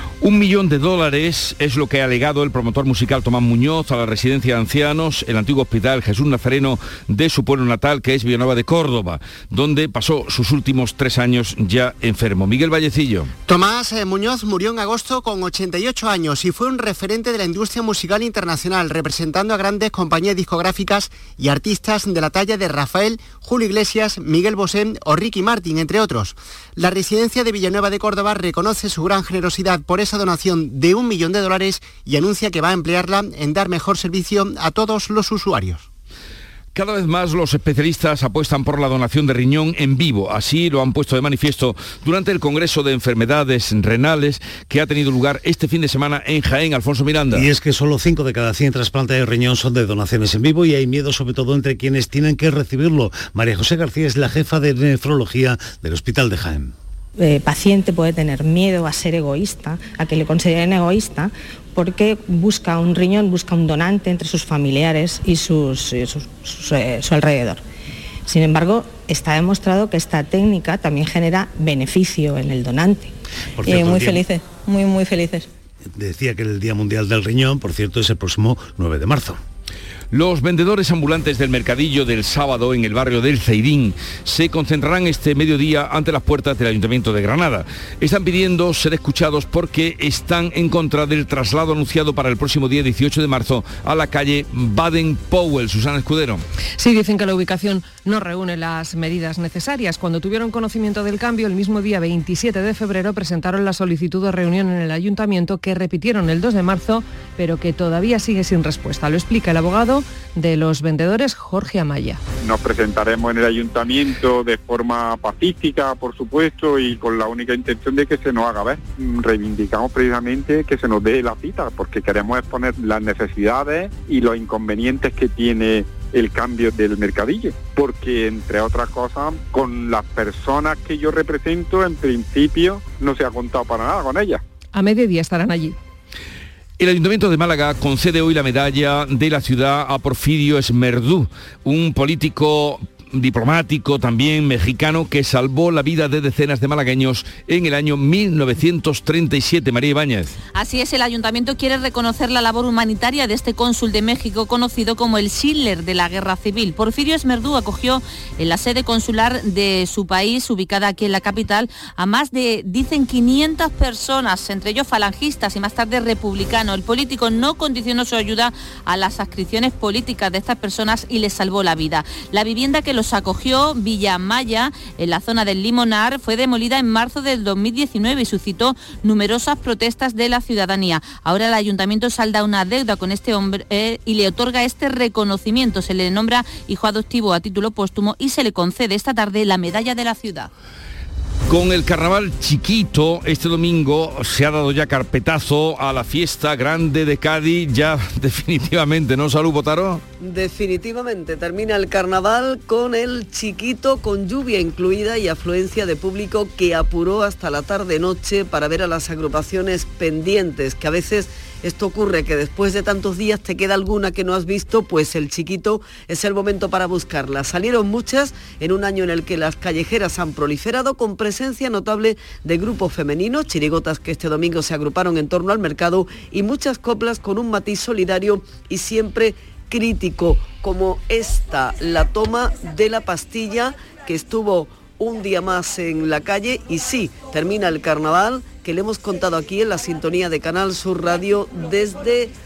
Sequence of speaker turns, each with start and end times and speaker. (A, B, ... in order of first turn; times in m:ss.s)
0:00.2-0:13.3 A
0:13.5-0:35.9 B
0:36.7-0:47.5 A
0:47.3-0:56.7 C
0:57.2-1:07.6 D
1:08.3-1:13.1 D
1:13.6-1:14.2 C
1:13.7-1:15.5 D
1:16.0-1:19.4 C
1:20.1-1:36.4 A
1:36.8-1:52.2 E
1:52.4-2:14.4 F
2:14.7-2:15.8 E
2:16.8-2:30.3 A
2:30.5-3:10.5 G
3:11.5-3:20.0 A
3:20.3-4:02.3 H